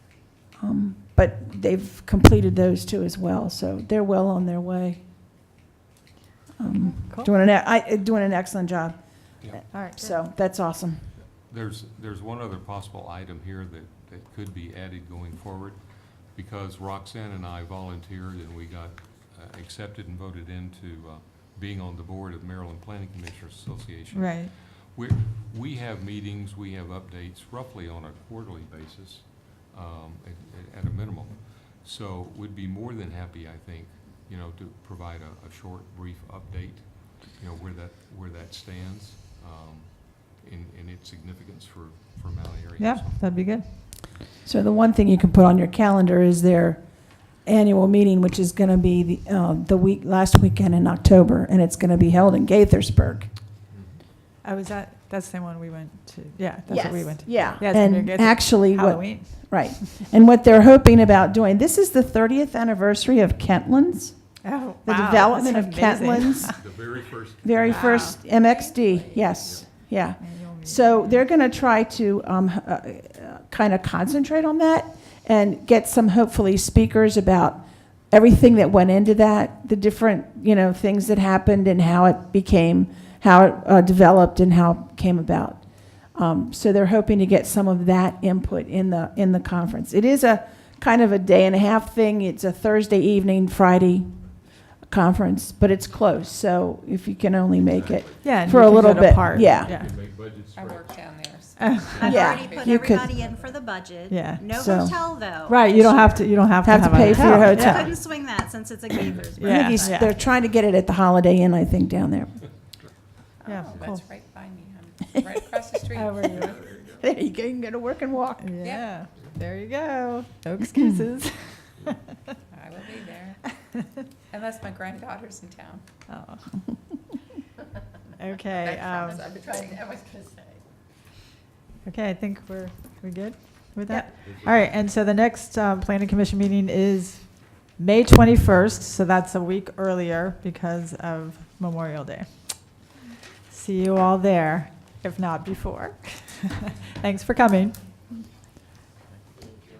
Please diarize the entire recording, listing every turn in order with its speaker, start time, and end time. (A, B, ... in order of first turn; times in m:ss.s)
0:00.6-0:05.0 A
0:06.6-0:11.1 A
0:06.7-0:07.3 B
0:09.7-0:10.2 B
0:11.2-0:43.3 C
0:24.1-0:24.5 B
0:42.8-0:43.7 B
0:44.4-0:53.3 A
0:53.7-0:54.0 C
0:54.4-1:00.0 B
0:56.7-1:06.8 A
1:04.4-1:06.6 B
1:06.4-1:08.2 C
1:07.4-1:39.7 A
1:07.6-1:08.2 B
1:08.2-1:09.6 D
1:09.4-1:09.7 C
1:10.0-1:11.3 B
1:37.6-1:42.5 C
1:38.2-1:39.9 B
1:40.2-1:43.6 D
1:41.6-1:42.2 B
1:42.0-1:43.1 A
1:42.0-1:50.3 E
1:44.1-1:44.4 B
1:44.6-1:45.0 A
1:45.4-1:47.9 B
1:46.6-1:47.9 A
1:47.5-1:48.0 C
1:49.4-1:50.1 B
1:49.4-1:52.4 A
1:53.4-1:56.5 D
1:53.4-1:54.0 B
1:53.7-1:54.0 C
1:55.9-1:56.8 B
1:56.3-1:57.0 C
1:57.0-1:58.4 A
1:58.4-2:02.0 B
1:58.6-1:59.0 D
2:02.5-2:03.4 D
2:04.3-2:05.8 D
2:06.1-2:07.0 B
2:08.2-2:09.5 B
2:08.5-2:10.6 D
2:11.8-2:22.9 B
2:14.2-2:14.8 C
2:23.4-2:27.8 B